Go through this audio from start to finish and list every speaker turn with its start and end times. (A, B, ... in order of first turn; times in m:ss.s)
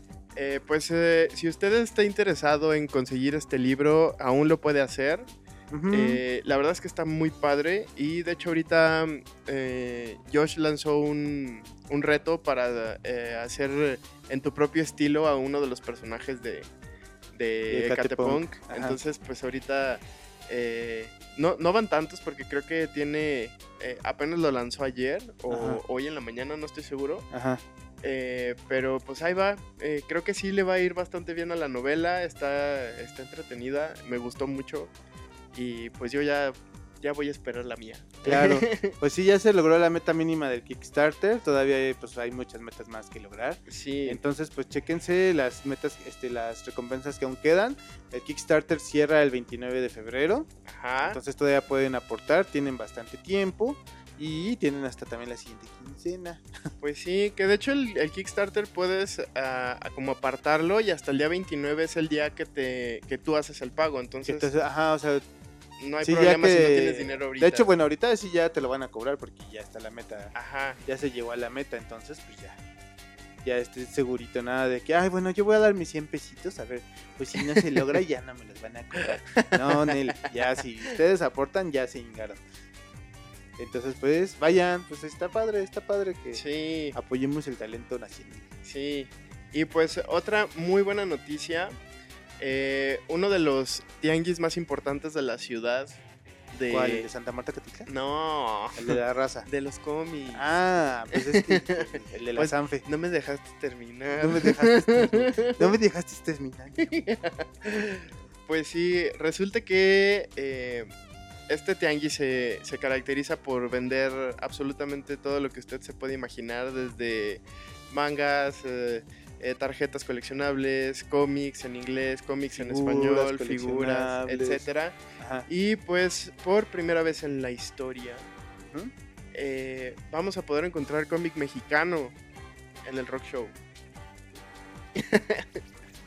0:00.4-0:05.3 A
0:05.7-0:06.2 B
0:05.9-0:16.7 A
0:17.3-0:27.3 A
0:17.7-0:19.0 B
0:25.5-0:25.8 B
0:27.3-0:27.6 B
0:28.0-0:34.9 A
0:35.5-0:39.0 A
0:38.2-0:50.5 B
0:43.7-0:44.2 A
0:50.7-0:51.2 A
0:51.0-0:56.5 B
0:56.8-1:04.5 A
1:04.2-1:05.2 B
1:05.8-1:07.7 A
1:06.0-1:10.3 B
1:10.3-1:10.8 A
1:10.8-1:12.6 B
1:13.4-1:22.4 B
1:17.4-1:17.9 A
1:18.9-1:20.3 A
1:23.6-1:26.4 B
1:26.3-1:27.0 A
1:26.9-1:28.5 B
1:28.6-1:31.8 A
1:32.4-1:36.0 A
1:36.5-1:37.1 A
1:36.7-1:37.9 B
1:37.8-1:40.5 A
1:38.8-1:39.5 B
1:40.3-1:42.8 B
1:41.1-1:45.7 A
1:44.2-1:46.9 B
1:46.8-1:50.9 A
1:51.5-2:08.3 A
2:02.5-2:04.6 B
2:05.2-2:05.5 B
2:08.6-2:08.9 B
2:09.3-2:12.2 A
2:12.8-2:13.5 A
2:15.0-2:15.6 A